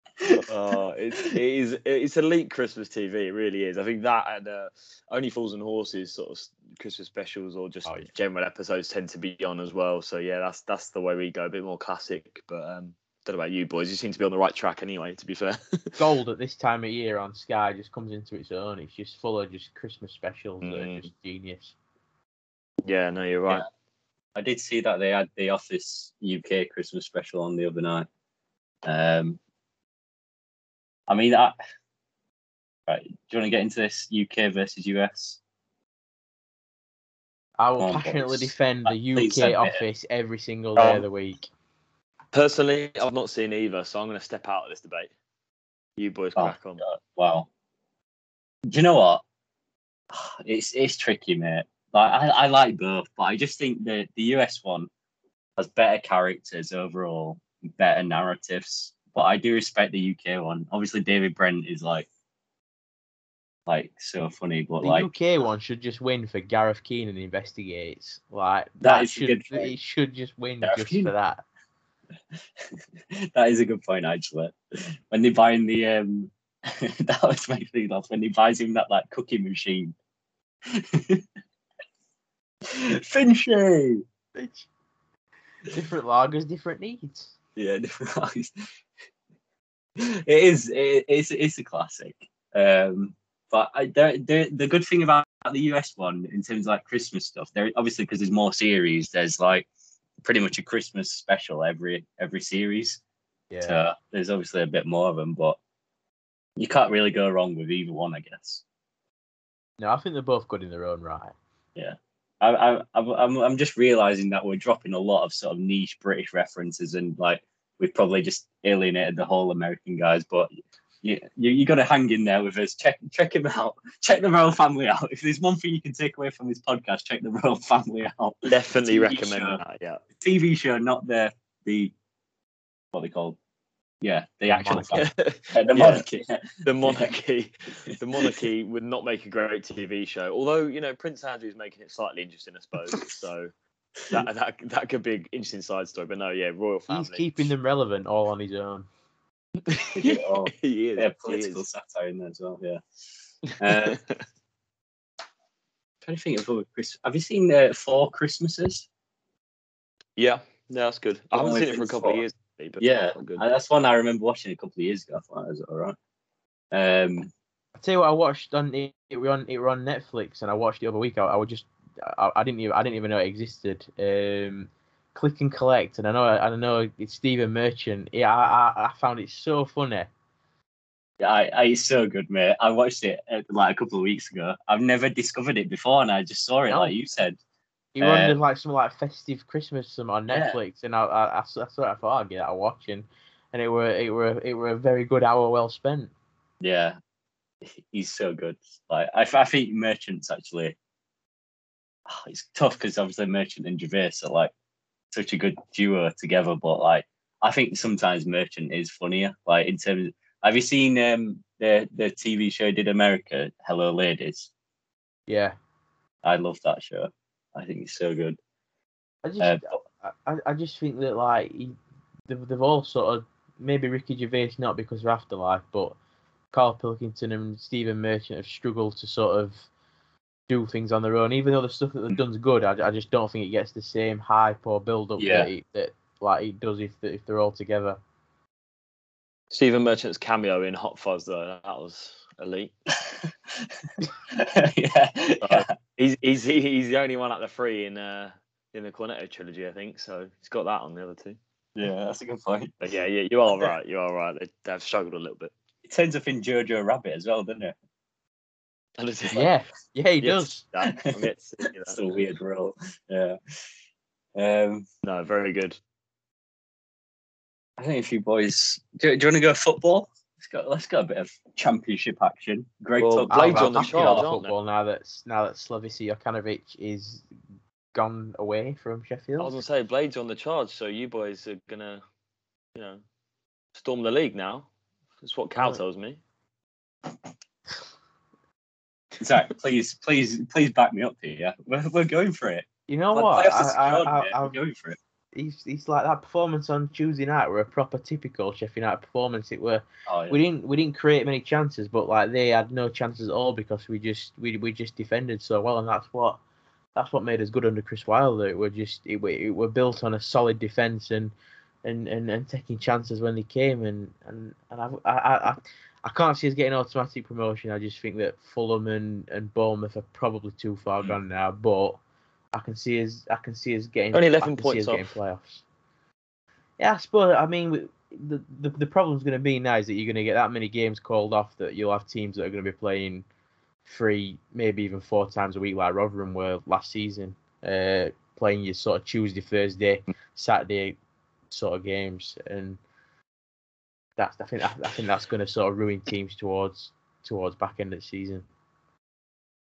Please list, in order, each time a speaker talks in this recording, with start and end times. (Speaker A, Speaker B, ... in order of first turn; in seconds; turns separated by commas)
Speaker A: 0.5-16.0, Speaker B: 16.0-21.7, Speaker A: 20.6-21.1, Speaker A: 22.8-23.6, Speaker C: 24.3-28.1, Speaker C: 28.8-29.4, Speaker C: 31.1-31.6, Speaker C: 32.9-35.4, Speaker B: 37.6-41.5, Speaker C: 37.8-39.8, Speaker A: 40.8-41.0, Speaker A: 42.3-45.1, Speaker A: 46.0-46.8, Speaker C: 46.4-47.5, Speaker C: 48.7-49.2, Speaker C: 50.1-54.9, Speaker C: 55.6-62.1, Speaker C: 63.7-65.1, Speaker B: 64.8-71.4, Speaker C: 68.8-69.7, Speaker C: 70.6-71.1, Speaker C: 73.1-79.9, Speaker C: 80.7-81.2, Speaker C: 82.6-84.0, Speaker B: 84.3-84.7, Speaker B: 85.7-87.3, Speaker C: 87.5-88.5, Speaker C: 90.0-99.7, Speaker C: 100.2-103.0, Speaker B: 103.5-103.8, Speaker C: 103.7-105.6, Speaker C: 106.6-108.6, Speaker B: 109.8-111.3, Speaker C: 111.8-120.5, Speaker C: 121.0-129.6, Speaker A: 128.5-130.0, Speaker C: 130.2-131.9, Speaker C: 132.9-133.4, Speaker C: 134.0-137.1, Speaker B: 134.5-135.1, Speaker A: 134.9-136.0, Speaker A: 136.6-143.5, Speaker A: 144.1-147.5, Speaker B: 146.9-148.9, Speaker A: 149.7-151.6, Speaker C: 149.9-152.8, Speaker A: 153.5-154.2, Speaker C: 153.6-154.0, Speaker C: 156.0-158.9, Speaker A: 160.2-163.4, Speaker C: 161.3-162.2, Speaker C: 162.8-165.9, Speaker C: 166.7-167.3, Speaker B: 167.8-180.1, Speaker C: 181.2-187.4, Speaker B: 186.7-186.9, Speaker B: 187.9-196.1, Speaker C: 188.0-188.3, Speaker C: 190.3-190.6, Speaker C: 196.6-197.0, Speaker C: 197.6-200.8, Speaker C: 202.1-204.5, Speaker C: 205.1-214.5, Speaker B: 215.3-215.5, Speaker C: 216.2-218.4, Speaker B: 219.2-221.8, Speaker C: 219.4-219.8, Speaker B: 222.3-225.9, Speaker B: 226.5-229.7, Speaker B: 230.5-238.0, Speaker C: 235.2-235.5, Speaker A: 239.5-242.7, Speaker C: 243.1-245.7, Speaker A: 245.4-251.4, Speaker C: 251.8-252.7, Speaker A: 252.8-255.5, Speaker C: 255.8-257.7, Speaker A: 259.0-259.5, Speaker B: 259.3-260.6, Speaker A: 260.2-262.2, Speaker C: 261.8-263.4, Speaker C: 264.3-264.9, Speaker A: 265.0-265.8, Speaker C: 267.8-274.2, Speaker A: 273.0-274.5, Speaker B: 273.3-277.3, Speaker B: 277.9-279.5, Speaker A: 279.4-282.0, Speaker A: 282.7-283.0, Speaker A: 283.7-284.7, Speaker A: 285.2-286.2, Speaker B: 285.5-285.8, Speaker C: 289.2-295.0, Speaker B: 292.9-294.6, Speaker B: 295.3-306.4, Speaker C: 300.1-300.4, Speaker B: 306.9-311.3, Speaker B: 311.8-322.0, Speaker B: 322.5-325.6, Speaker A: 324.1-325.1, Speaker B: 326.8-333.2, Speaker B: 333.9-341.0, Speaker B: 341.5-342.8, Speaker B: 344.2-348.4